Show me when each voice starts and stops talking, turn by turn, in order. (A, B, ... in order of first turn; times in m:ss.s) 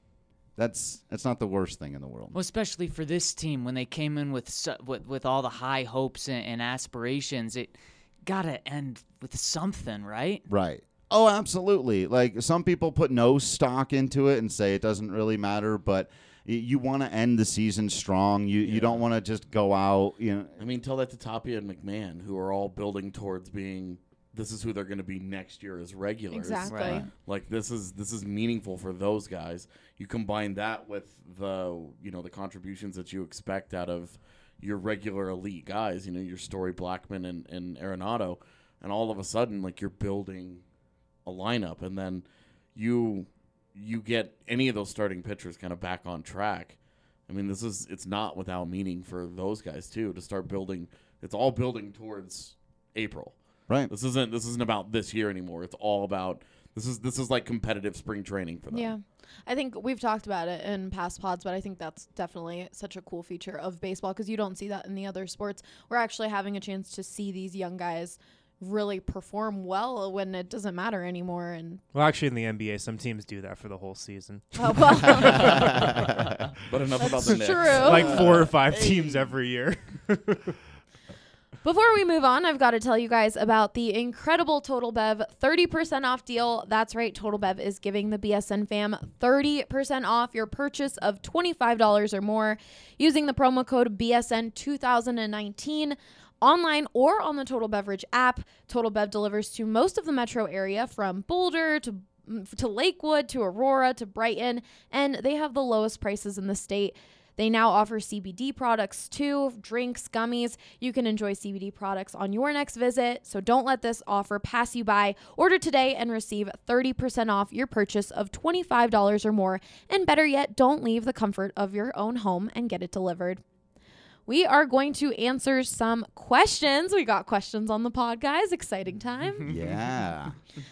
0:00.6-0:02.4 A
0:02.3-0:10.4 B
0:10.5-0:20.6 A
0:18.6-0:19.0 C
0:20.6-0:40.6 C
0:26.3-0:27.1 D
0:26.7-0:27.0 B
0:26.8-0:27.1 A
0:41.2-0:53.4 C
0:53.9-0:58.9 C
0:58.7-1:11.8 D
1:11.9-1:15.9 E
1:14.6-1:15.9 D
1:15.2-1:16.4 A
1:16.7-1:19.3 C
1:17.0-1:18.2 D
1:17.7-1:20.6 E
1:21.6-2:03.4 D
2:04.3-2:09.5 D
2:09.5-2:10.4 A